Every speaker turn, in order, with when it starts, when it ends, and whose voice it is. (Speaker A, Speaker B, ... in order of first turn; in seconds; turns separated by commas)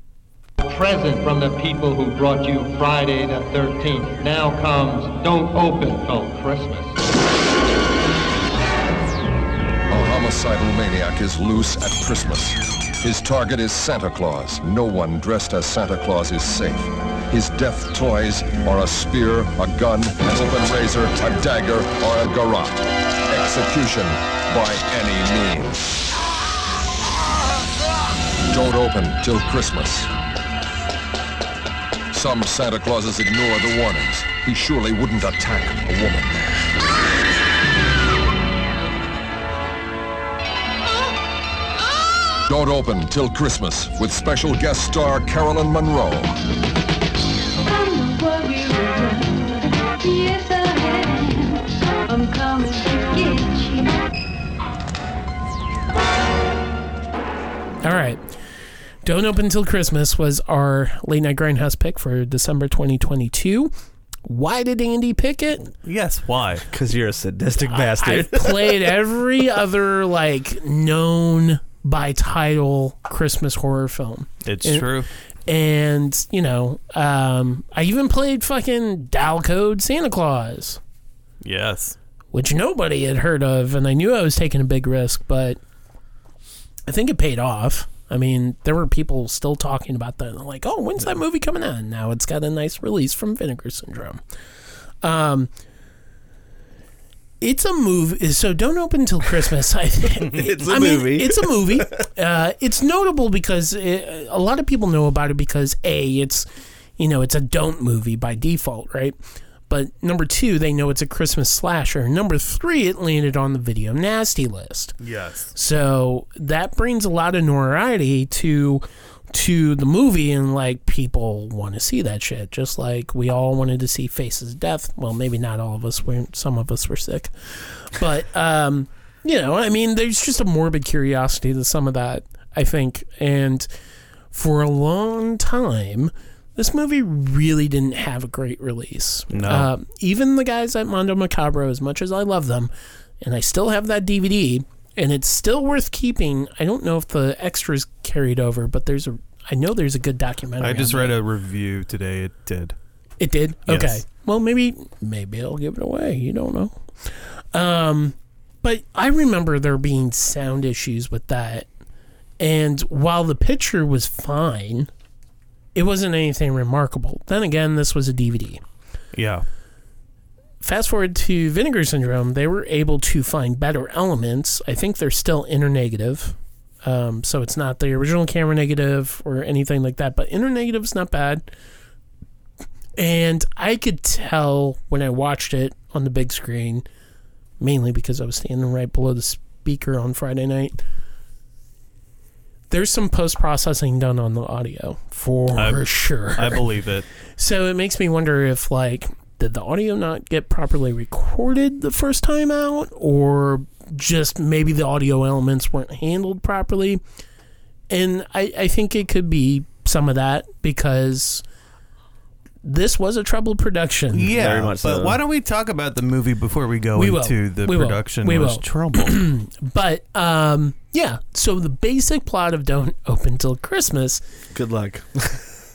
Speaker A: 0.6-7.0, Speaker B: 9.9-25.8, Speaker B: 28.5-30.1, Speaker B: 32.1-36.5, Speaker B: 42.5-46.4, Speaker C: 47.6-54.1, Speaker D: 57.8-58.2, Speaker D: 59.0-63.7, Speaker D: 64.2-65.7, Speaker E: 65.8-66.7, Speaker F: 66.7-69.0, Speaker D: 67.7-74.9, Speaker E: 74.5-75.1, Speaker D: 75.5-80.8, Speaker E: 81.4-82.0, Speaker D: 82.3-85.6, Speaker D: 86.9-94.2, Speaker D: 95.0-95.5, Speaker D: 97.4-106.5, Speaker F: 100.2-102.1, Speaker D: 107.0-109.2, Speaker D: 109.7-115.0, Speaker E: 115.0-115.5, Speaker D: 115.5-133.7, Speaker D: 134.3-142.7, Speaker E: 139.3-139.7, Speaker D: 143.2-151.2, Speaker E: 150.6-152.8, Speaker D: 153.2-161.7, Speaker E: 153.7-154.0, Speaker D: 162.4-164.9, Speaker D: 165.8-168.6, Speaker E: 169.1-169.4, Speaker D: 170.6-181.5, Speaker D: 183.0-186.8, Speaker D: 187.6-190.8, Speaker D: 192.7-196.6, Speaker E: 195.5-197.1, Speaker D: 197.4-207.0, Speaker D: 207.9-211.4, Speaker D: 212.6-214.3, Speaker E: 214.1-219.2, Speaker F: 214.3-215.2, Speaker D: 217.0-224.2, Speaker F: 224.5-225.5